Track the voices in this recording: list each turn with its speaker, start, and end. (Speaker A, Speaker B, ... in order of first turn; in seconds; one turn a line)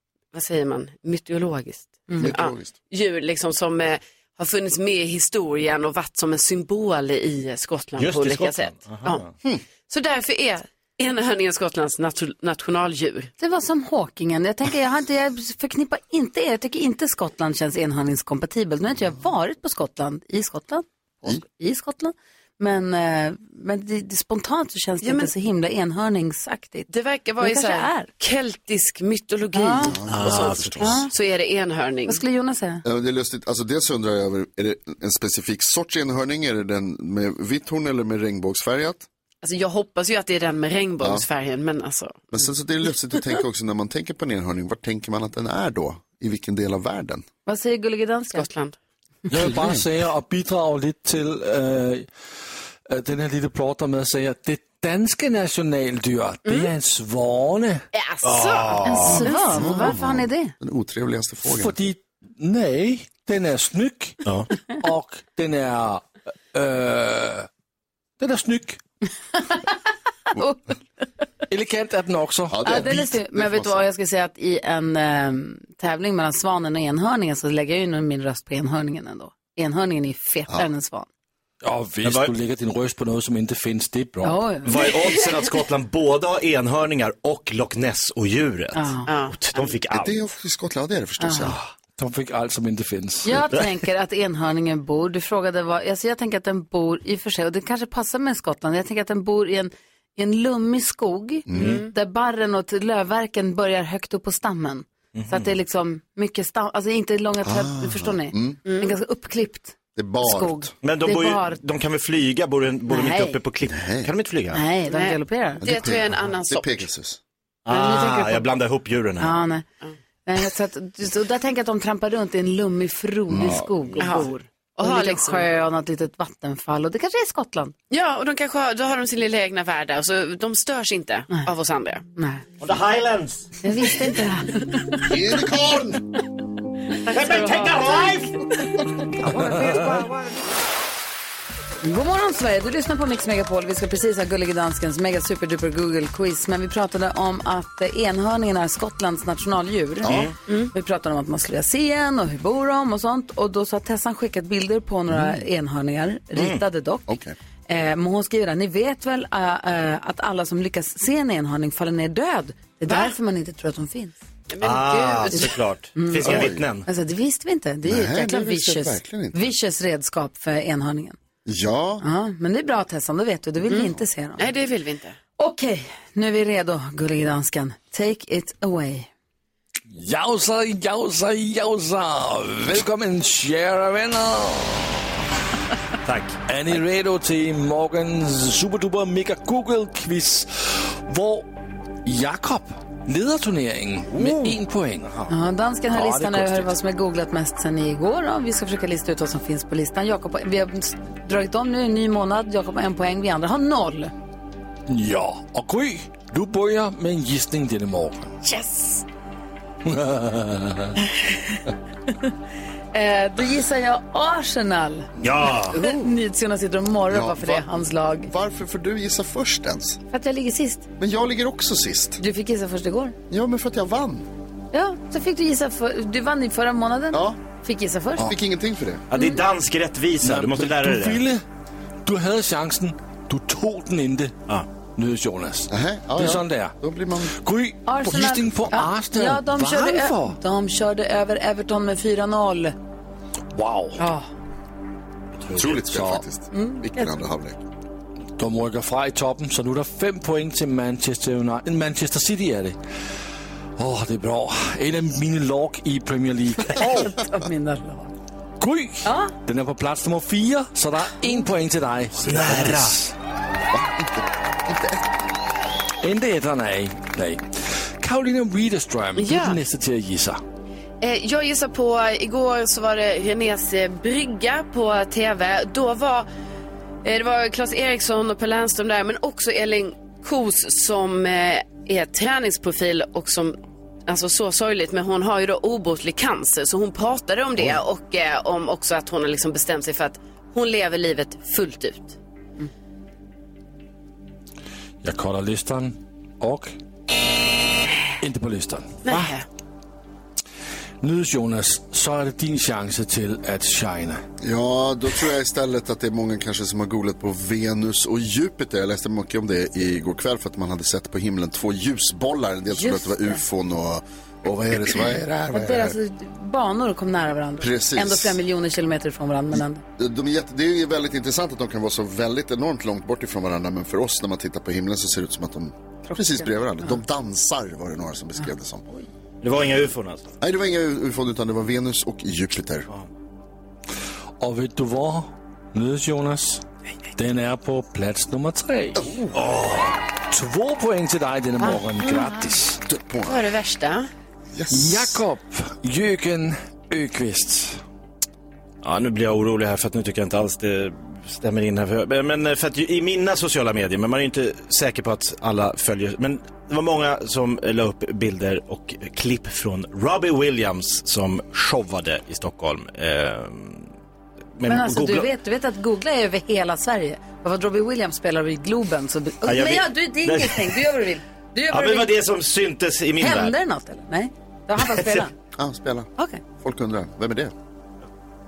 Speaker A: 0.3-9.2
Speaker B: 2.2-2.8
Speaker C: 8.0-9.3
Speaker A: 9.9-13.3
Speaker D: 13.4-28.1
Speaker A: 25.0-25.3
Speaker A: 26.9-32.2
Speaker D: 29.5-30.0
Speaker B: 29.8-31.1
Speaker C: 30.1-30.8
Speaker D: 30.8-31.1
Speaker D: 32.1-32.8
Speaker B: 32.8-39.1
Speaker A: 39.4-42.3
Speaker B: 41.0-41.2
Speaker B: 42.3-47.2
Speaker D: 47.5-48.5
Speaker A: 48.3-48.8
Speaker E: 49.3-52.1
Speaker B: 49.4-49.9
Speaker E: 52.9-57.8
Speaker A: 57.9-59.9
Speaker C: 58.2-59.3
Speaker D: 58.9-60.5
Speaker B: 59.5-61.8
Speaker E: 61.5-64.2
Speaker E: 64.8-67.5
Speaker E: 68.2-68.8
Speaker D: 70.3-70.8
Speaker E: 71.5-72.9
Speaker B: 72.5-73.9
Speaker D: 72.6-81.1
Speaker E: 81.6-84.4
Speaker C: 82.0-82.3
Speaker D: 84.2-84.7
Speaker C: 84.6-90.2
Speaker D: 88.8-89.1
Speaker A: 89.1-89.8
Speaker B: 89.9-91.6
Speaker D: 91.2-91.5
Speaker E: 92.0-93.4
Speaker D: 93.2-111.6
Speaker B: 101.5-101.8
Speaker A: 101.6-101.9
Speaker C: 105.2-105.5
Speaker B: 107.4-108.6
Speaker A: 108.7-109.0
Speaker B: 110.0-110.7
Speaker C: 110.8-114.6
Speaker D: 112.9-113.4
Speaker B: 113.7-114.1
Speaker D: 114.5-115.7
Speaker A: 114.9-116.9
Speaker B: 115.6-117.2
Speaker C: 117.7-119.4
Speaker D: 117.7-118.5
Speaker D: 119.2-119.7
Speaker D: 120.3-127.8
Speaker B: 123.3-123.6
Speaker A: 124.0-125.5
Speaker A: 127.9-132.1
Speaker D: 132.2-132.4
Speaker C: 132.6-133.6
Speaker D: 133.6-135.1
Speaker B: 134.9-136.0
Speaker C: 137.1-138.4
Speaker A: 137.1-137.4
Speaker D: 139.4-139.9
Speaker C: 139.5-139.8
Speaker D: 141.8-157.1
Speaker C: 150.1-150.3
Speaker C: 156.3-156.6
Speaker B: 157.1-157.4
Speaker D: 157.7-164.1
Speaker A: 162.9-163.1
Speaker A: 164.5-165.6
Speaker C: 164.6-166.9
Speaker D: 165.3-171.2
Speaker B: 166.2-166.7
Speaker B: 167.8-169.5
Speaker B: 171.4-172.0
Speaker D: 172.0-174.5
Speaker A: 173.7-175.2
Speaker D: 175.4-179.1
Speaker E: 179.9-185.0
Speaker C: 186.1-186.4
Speaker E: 186.5-191.5
Speaker E: 192.1-195.3
Speaker C: 194.2-194.5
Speaker D: 195.3-204.1
Speaker E: 195.9-196.7
Speaker E: 204.9-208.3
Speaker A: 208.4-209.0
Speaker E: 209.8-210.9
Speaker D: 212.9-215.1
Speaker B: 215.2-216.1
Speaker C: 215.2-215.8
Speaker D: 215.7-218.3
Speaker B: 217.1-217.7
Speaker B: 218.3-220.0
Speaker D: 220.1-220.9
Speaker B: 221.0-222.2
Speaker D: 222.2-223.2
Speaker B: 223.3-224.3
Speaker D: 224.7-228.3
Speaker B: 227.1-227.4
Speaker B: 228.2-229.0
Speaker C: 229.1-231.2
Speaker D: 229.1-229.4
Speaker E: 230.2-231.4
Speaker E: 232.1-234.3
Speaker E: 235.0-236.7
Speaker B: 235.7-237.3
Speaker E: 237.3-240.4
Speaker D: 237.9-242.8
Speaker E: 243.5-244.0
Speaker D: 244.0-244.2
Speaker E: 245.5-246.2
Speaker B: 245.6-247.6
Speaker D: 246.5-247.1
Speaker E: 248.4-252.8
Speaker E: 253.8-257.1
Speaker D: 256.7-258.1
Speaker E: 258.6-263.1
Speaker D: 259.1-259.3
Speaker C: 262.2-263.0
Speaker B: 263.7-265.0
Speaker E: 266.0-270.4
Speaker A: 269.2-269.6
Speaker A: 271.0-276.3
Speaker A: 277.0-292.7
Speaker E: 295.0-296.8
Speaker E: 298.2-299.3
Speaker A: 299.1-299.4
Speaker E: 301.0-304.2
Speaker B: 304.4-316.0
Speaker D: 312.7-313.4
Speaker D: 315.5-319.8
Speaker B: 317.6-318.4
Speaker B: 320.0-328.9
Speaker D: 326.1-327.0
Speaker C: 329.4-330.3
Speaker B: 330.4-332.9
Speaker E: 334.4-336.6
Speaker E: 337.2-339.1
Speaker B: 339.0-339.3
Speaker C: 339.4-339.9
Speaker E: 340.3-342.8
Speaker A: 341.6-342.3
Speaker B: 342.9-343.5
Speaker A: 343.2-344.1
Speaker B: 344.5-345.2
Speaker E: 344.7-347.8
Speaker C: 348.8-363.9
Speaker C: 364.6-365.3
Speaker D: 364.6-372.2
Speaker C: 369.5-370.8
Speaker C: 371.7-373.6
Speaker D: 373.2-375.3
Speaker C: 374.8-375.2
Speaker B: 375.6-377.5